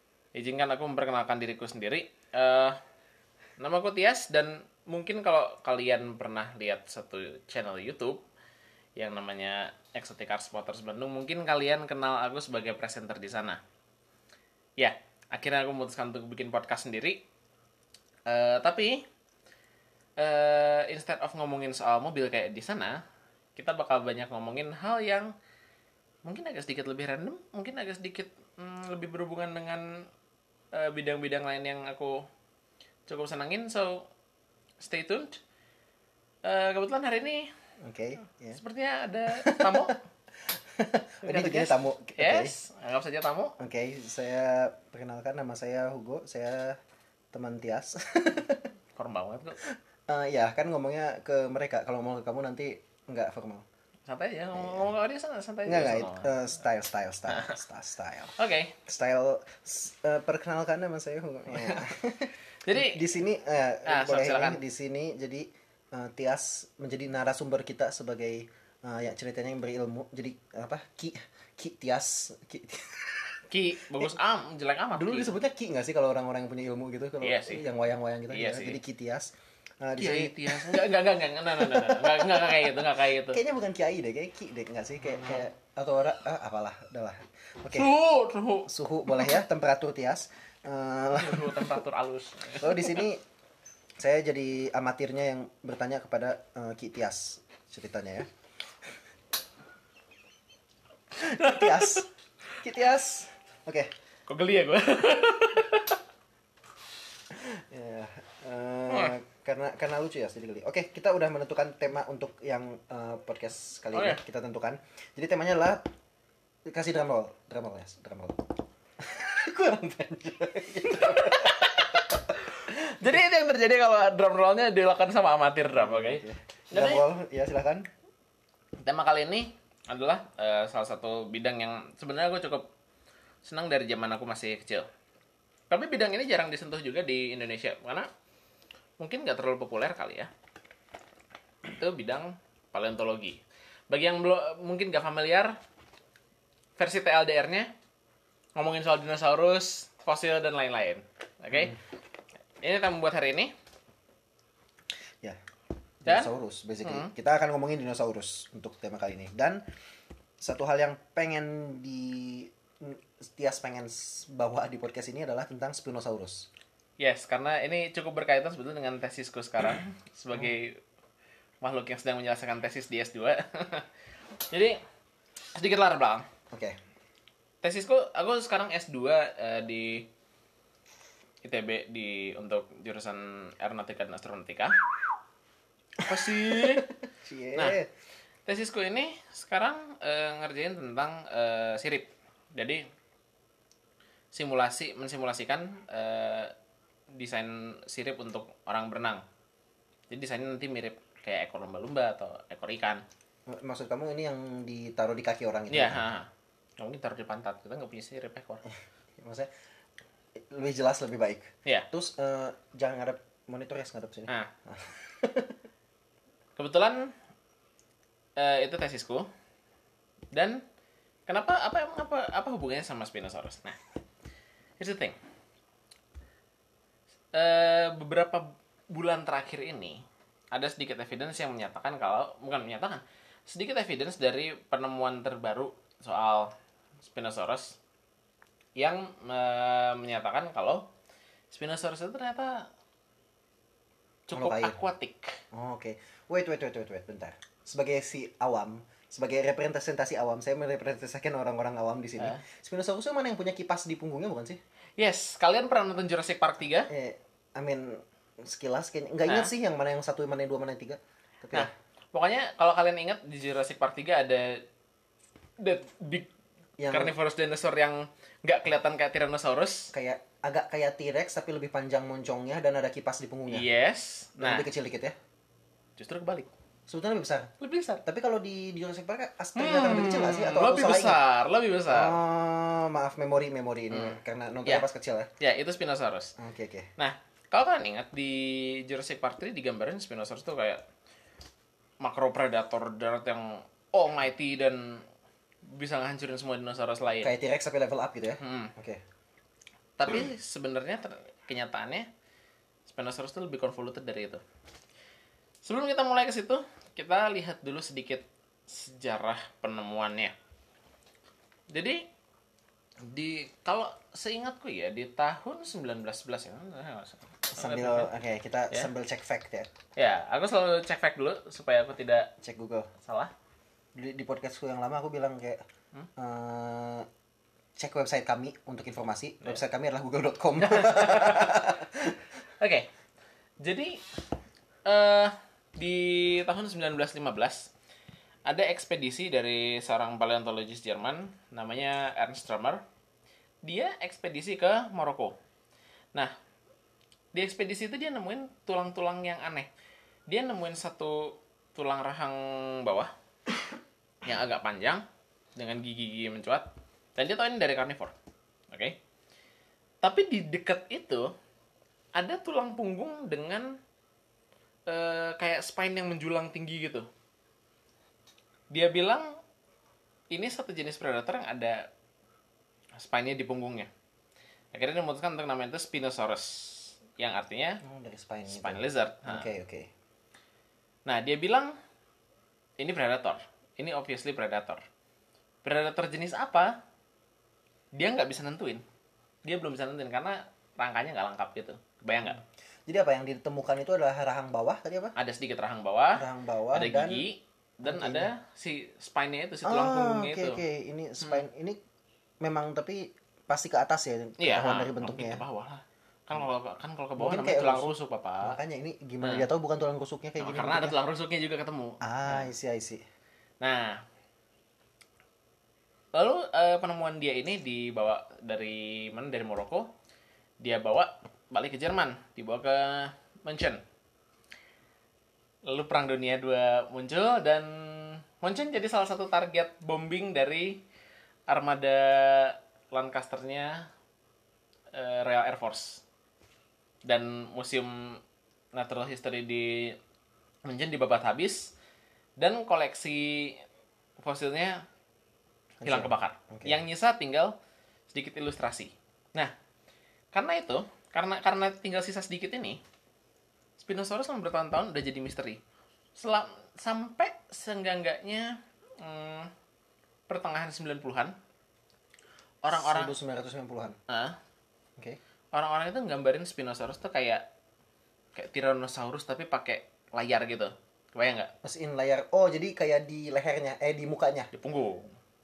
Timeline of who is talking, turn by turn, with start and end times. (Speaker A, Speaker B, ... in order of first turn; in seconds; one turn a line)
Speaker A: 0.3-2.8
Speaker A: 3.6-8.2
Speaker A: 8.9-13.6
Speaker A: 14.8-17.2
Speaker A: 18.2-19.0
Speaker A: 20.2-23.0
Speaker A: 23.6-25.3
Speaker A: 26.2-30.1
Speaker A: 30.7-32.2
Speaker A: 33.1-34.1
Speaker A: 34.8-35.4
Speaker A: 36.4-37.5
Speaker B: 37.8-38.6
Speaker A: 38.5-40.0
Speaker B: 39.4-39.9
Speaker B: 40.5-42.5
Speaker A: 41.2-43.5
Speaker B: 43.6-46.8
Speaker B: 47.3-48.7
Speaker A: 49.0-49.6
Speaker B: 49.6-53.6
Speaker A: 54.1-56.3
Speaker B: 54.5-54.9
Speaker B: 55.6-58.3
Speaker A: 57.3-57.5
Speaker A: 58.4-58.8
Speaker B: 58.9-73.4
Speaker A: 61.5-61.8
Speaker A: 62.6-63.0
Speaker A: 63.8-64.6
Speaker A: 73.5-75.3
Speaker B: 74.9-80.9
Speaker A: 77.2-77.7
Speaker A: 78.3-78.8
Speaker A: 80.0-83.4
Speaker B: 81.5-87.9
Speaker A: 87.7-89.3
Speaker B: 88.7-91.8
Speaker A: 91.1-93.0
Speaker B: 92.6-93.2
Speaker B: 94.0-98.3
Speaker B: 101.2-102.1
Speaker A: 101.2-102.0
Speaker B: 102.6-103.9
Speaker A: 104.3-106.0
Speaker B: 107.3-115.9
Speaker A: 108.9-109.2
Speaker A: 113.9-114.2
Speaker B: 116.7-122.2
Speaker A: 120.9-127.0
Speaker B: 125.7-127.9
Speaker A: 128.8-132.7
Speaker A: 133.4-134.9
Speaker A: 135.7-138.1
Speaker A: 139.0-140.3
Speaker A: 141.7-145.6
Speaker A: 146.8-147.7
Speaker A: 148.6-151.8
Speaker A: 152.6-153.5
Speaker B: 156.0-159.7
Speaker A: 156.1-156.3
Speaker A: 156.8-157.1
Speaker B: 160.4-166.5
Speaker A: 167.0-170.8
Speaker A: 171.6-173.9
Speaker A: 174.5-174.8
Speaker A: 175.5-176.2
Speaker B: 176.5-176.8
Speaker A: 177.6-180.1
Speaker A: 181.4-184.8
Speaker A: 186.0-186.9
Speaker B: 186.0-187.9
Speaker A: 187.5-187.8
Speaker A: 188.4-192.8
Speaker A: 194.3-196.5
Speaker A: 197.1-199.2
Speaker A: 200.1-203.0
Speaker B: 203.5-206.0
Speaker A: 205.7-208.6
Speaker B: 209.2-209.5
Speaker B: 210.4-215.6
Speaker A: 216.6-217.1
Speaker A: 218.4-219.3
Speaker A: 220.3-220.6
Speaker A: 221.3-223.8
Speaker A: 224.8-225.2
Speaker A: 227.3-230.0
Speaker A: 230.5-236.5
Speaker A: 237.0-237.8
Speaker A: 238.8-240.9
Speaker A: 241.5-242.7
Speaker A: 244.3-245.4
Speaker B: 244.3-244.8
Speaker B: 245.5-254.6
Speaker A: 255.0-256.9
Speaker B: 256.9-261.7
Speaker A: 259.3-259.5
Speaker A: 261.5-264.6
Speaker A: 265.6-266.3
Speaker B: 266.8-267.1
Speaker A: 266.9-269.9
Speaker B: 269.9-273.6
Speaker A: 273.5-274.7
Speaker B: 274.4-275.1
Speaker A: 276.0-276.5
Speaker B: 276.9-277.5
Speaker A: 277.6-278.0
Speaker B: 278.0-281.2
Speaker A: 279.5-282.2
Speaker B: 281.9-285.3
Speaker A: 283.9-284.9
Speaker A: 285.4-286.3
Speaker B: 286.4-286.9
Speaker A: 287.0-290.8
Speaker A: 292.0-295.0
Speaker A: 295.6-297.3
Speaker B: 297.2-299.0
Speaker A: 298.4-298.7
Speaker A: 300.0-302.1
Speaker A: 302.9-304.4
Speaker A: 305.6-310.3
Speaker A: 311.7-312.0
Speaker A: 313.0-318.1
Speaker B: 317.5-319.7
Speaker A: 319.9-322.3
Speaker B: 322.4-322.9
Speaker A: 323.0-323.3
Speaker B: 323.9-325.6
Speaker B: 326.2-327.1
Speaker B: 327.8-332.2
Speaker A: 330.6-331.5
Speaker A: 332.6-332.9
Speaker A: 333.6-334.1
Speaker A: 334.8-337.7
Speaker A: 338.4-342.8
Speaker A: 343.6-345.4
Speaker A: 347.3-349.7
Speaker A: 350.3-353.1
Speaker A: 354.2-355.0
Speaker A: 355.6-358.1
Speaker A: 358.7-359.0
Speaker A: 360.0-361.3
Speaker A: 362.1-363.8
Speaker A: 364.9-367.1
Speaker A: 368.7-369.4
Speaker A: 370.3-371.9
Speaker A: 372.9-373.9
Speaker A: 374.7-377.8
Speaker B: 377.8-379.9
Speaker A: 378.5-379.5
Speaker A: 381.1-381.8
Speaker A: 382.8-384.8
Speaker A: 385.6-386.8
Speaker A: 387.9-388.8
Speaker A: 389.4-392.4
Speaker B: 392.9-395.1
Speaker A: 395.1-400.6
Speaker B: 396.1-397.2
Speaker B: 397.8-398.3
Speaker B: 399.6-401.8
Speaker A: 401.2-401.4
Speaker B: 402.4-405.4
Speaker A: 404.4-408.6
Speaker B: 407.2-411.0
Speaker A: 409.2-409.5
Speaker A: 410.4-412.5
Speaker B: 412.0-413.0
Speaker A: 413.6-414.0
Speaker A: 416.1-419.9
Speaker A: 420.6-423.8
Speaker A: 425.6-430.8
Speaker A: 431.5-433.9
Speaker A: 434.9-436.0
Speaker A: 437.0-438.2
Speaker A: 438.7-440.0
Speaker A: 440.6-441.7
Speaker A: 442.4-443.6
Speaker A: 444.2-444.9
Speaker B: 445.8-446.8
Speaker A: 445.8-447.5
Speaker A: 448.1-449.5
Speaker A: 450.3-452.8
Speaker A: 453.8-455.6
Speaker A: 456.1-459.5
Speaker A: 460.3-461.4
Speaker A: 462.6-463.1
Speaker B: 462.7-464.0
Speaker A: 464.1-464.4
Speaker A: 465.5-467.4
Speaker A: 468.3-471.5
Speaker B: 471.6-474.5
Speaker A: 474.5-475.1